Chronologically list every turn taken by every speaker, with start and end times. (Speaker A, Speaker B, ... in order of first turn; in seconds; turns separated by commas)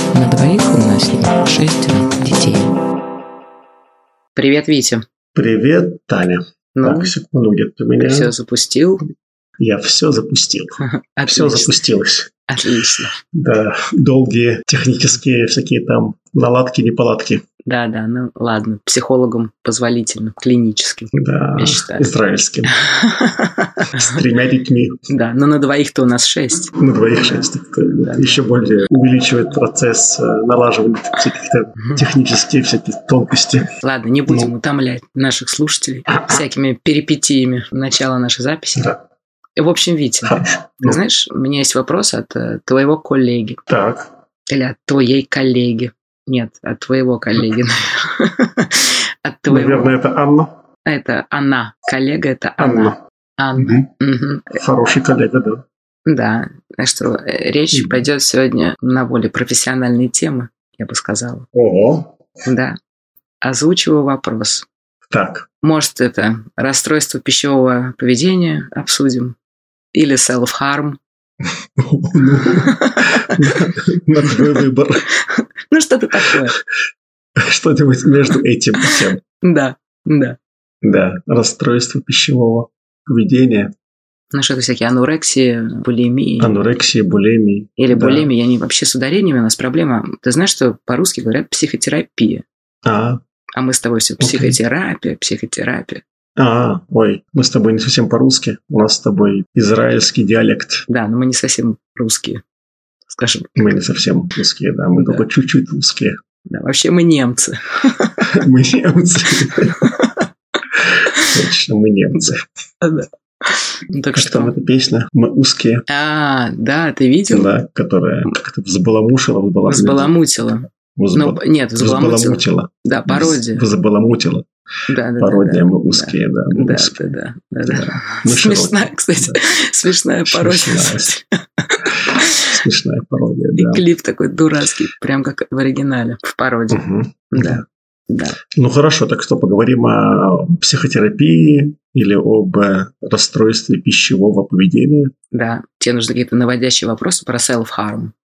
Speaker A: 0.1-2.7, Speaker A: 4.4-5.0, Speaker B: 5.3-8.3, Speaker A: 6.8-7.1, Speaker A: 8.0-9.1, Speaker B: 9.6-12.3, Speaker A: 10.8-11.8, Speaker A: 12.5-13.2, Speaker B: 13.3-17.4, Speaker A: 17.7-22.1, Speaker B: 21.1-22.7, Speaker A: 22.7-24.1, Speaker B: 23.9-25.0, Speaker A: 25.1-26.7, Speaker B: 26.8-33.7, Speaker A: 28.0-28.4, Speaker A: 33.8-39.0, Speaker A: 39.6-43.6, Speaker B: 40.2-41.0, Speaker B: 43.7-44.1, Speaker A: 44.5-49.9, Speaker B: 49.5-50.5, Speaker A: 50.9-54.6, Speaker B: 52.6-53.0, Speaker B: 53.6-53.9, Speaker B: 54.5-55.6, Speaker A: 56.1-61.5, Speaker B: 57.7-58.0, Speaker B: 61.5-62.1, Speaker A: 62.5-62.8, Speaker A: 63.4-64.7, Speaker B: 65.1-65.5, Speaker A: 65.6-69.4, Speaker A: 69.9-71.0, Speaker B: 71.8-75.0, Speaker A: 72.4-73.6, Speaker A: 75.1-76.6, Speaker B: 77.4-79.2, Speaker A: 78.8-80.4, Speaker B: 80.8-83.7, Speaker A: 84.3-86.6, Speaker B: 86.4-88.3, Speaker A: 87.8-92.5, Speaker B: 92.8-93.2, Speaker A: 93.6-96.0, Speaker B: 94.2-94.6, Speaker B: 96.4-100.8, Speaker A: 100.9-102.4, Speaker A: 103.1-103.5, Speaker B: 103.6-106.2, Speaker A: 105.0-105.2, Speaker A: 106.5-108.3, Speaker B: 108.2-109.9, Speaker A: 109.7-110.3, Speaker B: 110.8-112.4, Speaker A: 112.8-114.5, Speaker B: 114.1-115.8, Speaker A: 115.9-117.5, Speaker B: 117.3-120.1, Speaker A: 119.7-123.7, Speaker B: 120.9-124.5, Speaker A: 124.9-132.6, Speaker B: 125.2-127.1, Speaker B: 127.7-129.4, Speaker B: 130.2-131.1, Speaker B: 132.0-133.8, Speaker A: 133.6-138.4, Speaker B: 136.7-137.6, Speaker B: 138.5-145.1, Speaker A: 145.3-148.1